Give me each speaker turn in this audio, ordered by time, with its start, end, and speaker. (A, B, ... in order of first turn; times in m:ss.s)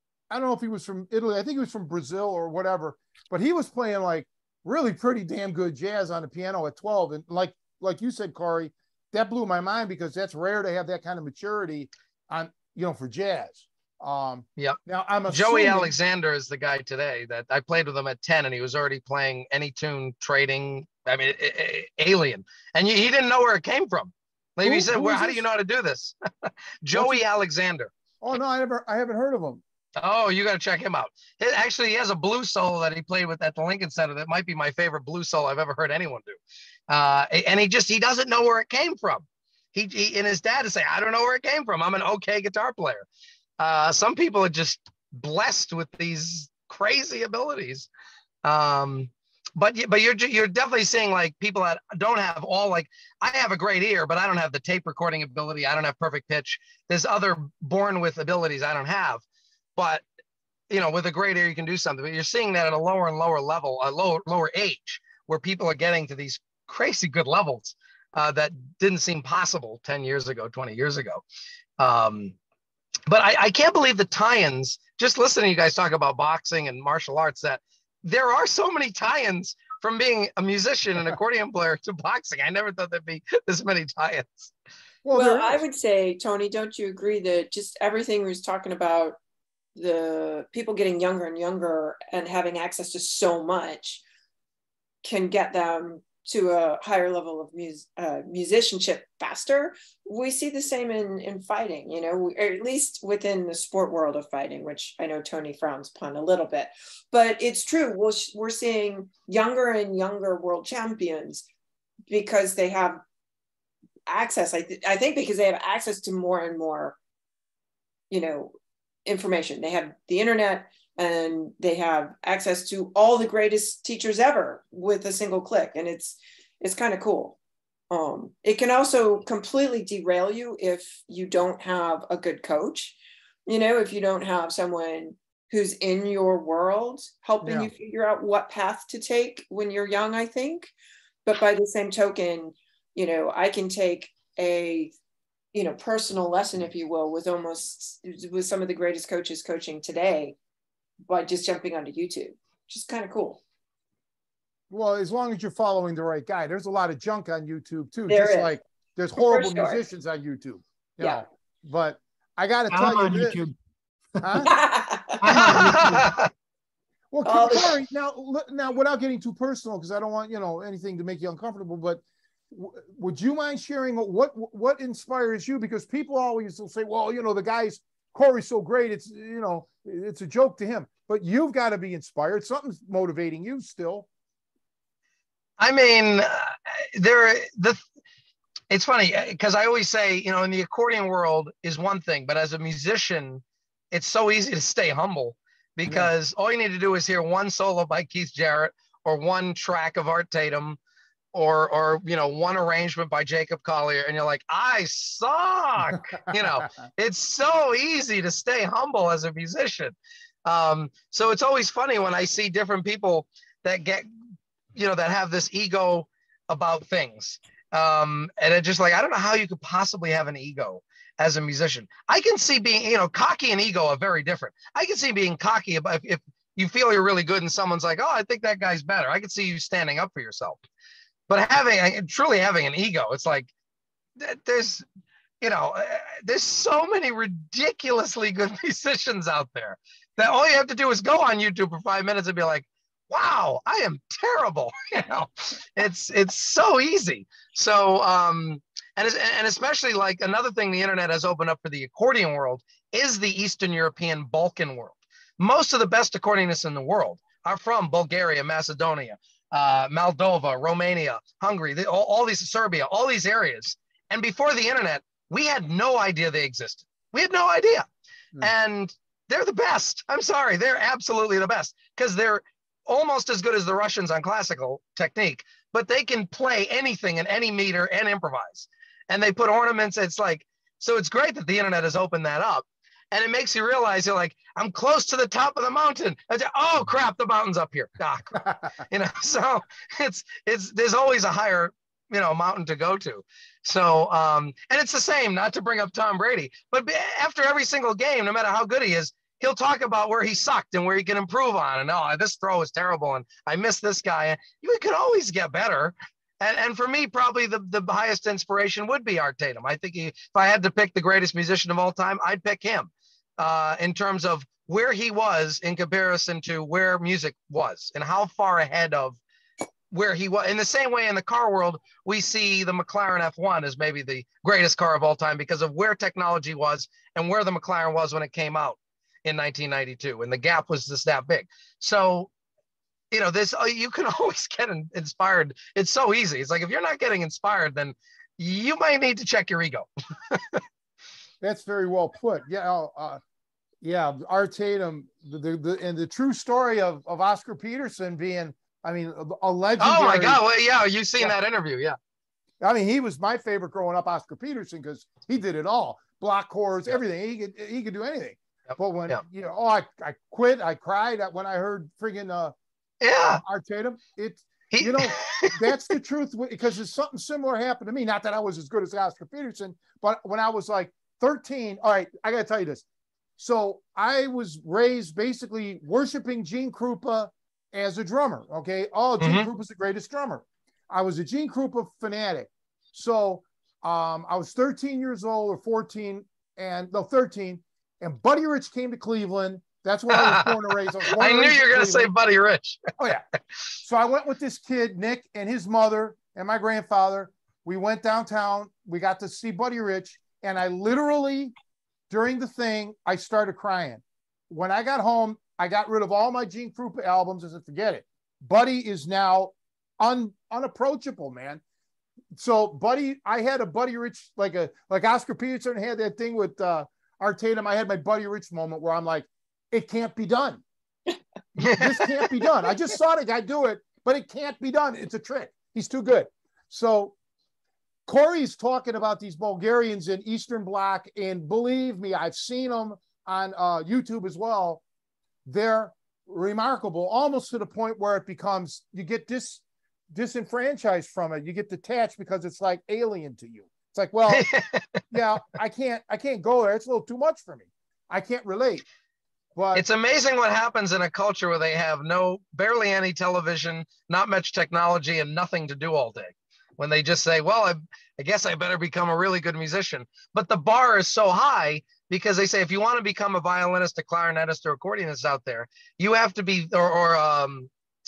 0:00.3-0:15.9 A
0:14.6-0:26.2 B
0:24.6-0:25.4 A
0:26.8-0:27.9 B
0:26.9-0:27.2 A
0:28.2-0:29.6 A
0:30.0-0:43.1 B
0:43.6-0:47.9 B
0:48.4-0:59.2 B
0:59.8-1:00.0 B
1:00.7-1:11.2 B
1:11.8-1:12.4 B
1:13.1-1:24.5 B
1:25.0-1:25.6 A
1:25.2-1:29.2 C
1:29.8-1:34.0 C
1:35.0-1:51.5 C
1:52.1-1:53.0 C
1:54.1-1:57.0 C
1:58.1-1:58.5 C
1:59.1-2:07.4 C
2:07.9-2:20.7 C
2:17.4-2:17.7 A
2:21.2-2:24.9 C
2:25.5-2:30.4 C
2:31.0-2:33.4 C
2:34.7-2:43.4 A
2:38.1-2:38.6 C
2:39.2-2:39.8 C
2:42.7-2:43.6 D
2:44.2-2:44.5 D
2:44.2-2:44.5 A
2:44.5-2:45.2 C
2:45.2-2:46.1 D
2:45.3-2:46.3 B
2:47.1-3:04.1 A
2:47.2-2:47.8 C
3:05.6-3:07.8 B
3:08.7-3:20.8 B
3:21.3-3:30.0 B
3:30.5-3:34.1 B
3:34.8-3:50.6 B
3:51.3-3:53.5 B
3:54.2-3:54.8 B
3:55.4-4:27.9 B
4:28.4-5:19.2 B
5:19.9-5:32.3 B
5:33.1-5:40.6 B
5:41.4-5:43.2 A
5:43.8-5:50.4 A
5:49.8-5:52.0 B
5:52.6-6:02.5 A
5:58.7-5:59.2 B
6:03.0-6:03.4 B
6:03.3-6:12.8 A
6:04.7-6:05.8 B
6:13.4-6:32.1 A
6:19.2-6:19.5 B
6:30.1-6:32.9 B
6:33.0-6:33.2 A
6:33.8-6:41.5 A
6:42.1-6:51.6 A
6:52.4-7:00.6 A
7:01.6-7:02.1 B
7:01.7-7:07.2 A
7:08.1-7:14.8 A
7:15.5-7:24.5 A
7:24.3-7:25.0 B
7:25.1-7:28.8 A
7:29.6-7:29.8 A
7:29.8-7:47.7 B